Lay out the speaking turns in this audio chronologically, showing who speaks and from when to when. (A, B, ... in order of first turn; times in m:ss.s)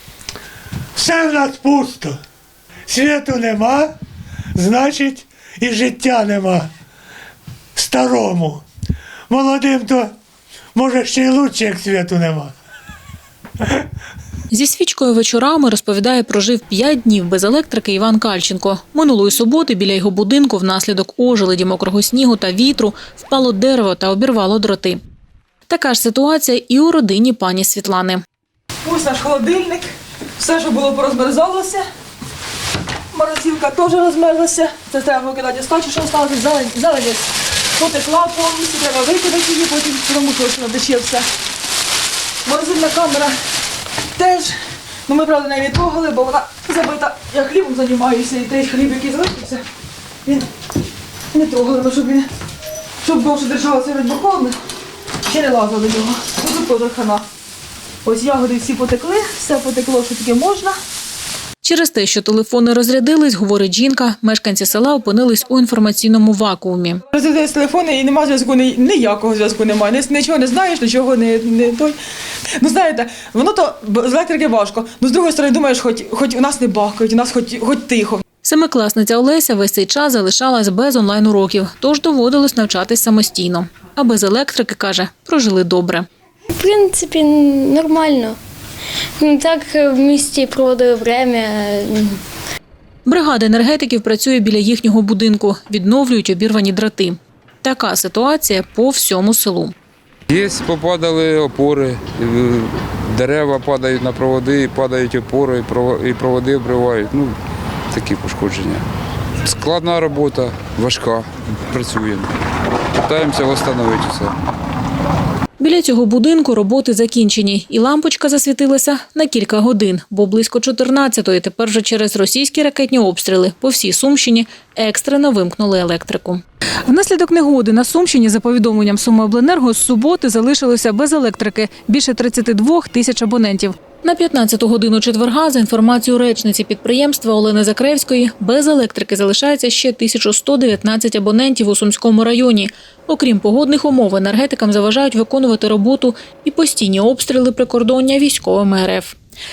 0:01.0-0:02.2 A
0:02.9-0:03.9 A
0:04.6-0:06.7 A
0:07.8-0:08.6 A
0:09.3-0:10.1 A
0:10.8-0:12.6 A
0:14.5-0:25.0 B
0:25.7-0:28.2 B
0:28.8-0:31.9 C
0:33.1-0:41.3 C
0:42.4-0:43.4 C
0:44.2-0:49.6 C
0:51.3-0:52.3 C
0:53.0-0:54.6 C
0:55.3-0:57.2 C
0:58.0-1:00.8 C
1:01.6-1:07.0 B
1:07.1-1:12.0 C
1:12.6-1:18.2 C
1:18.4-1:26.1 B
1:26.5-1:28.4 D
1:29.2-1:32.2 D
1:33.1-1:39.7 B
1:40.3-1:47.4 E
1:47.9-1:48.9 E
1:49.4-1:52.3 E
1:53.0-1:54.4 E
1:55.6-2:29.2 B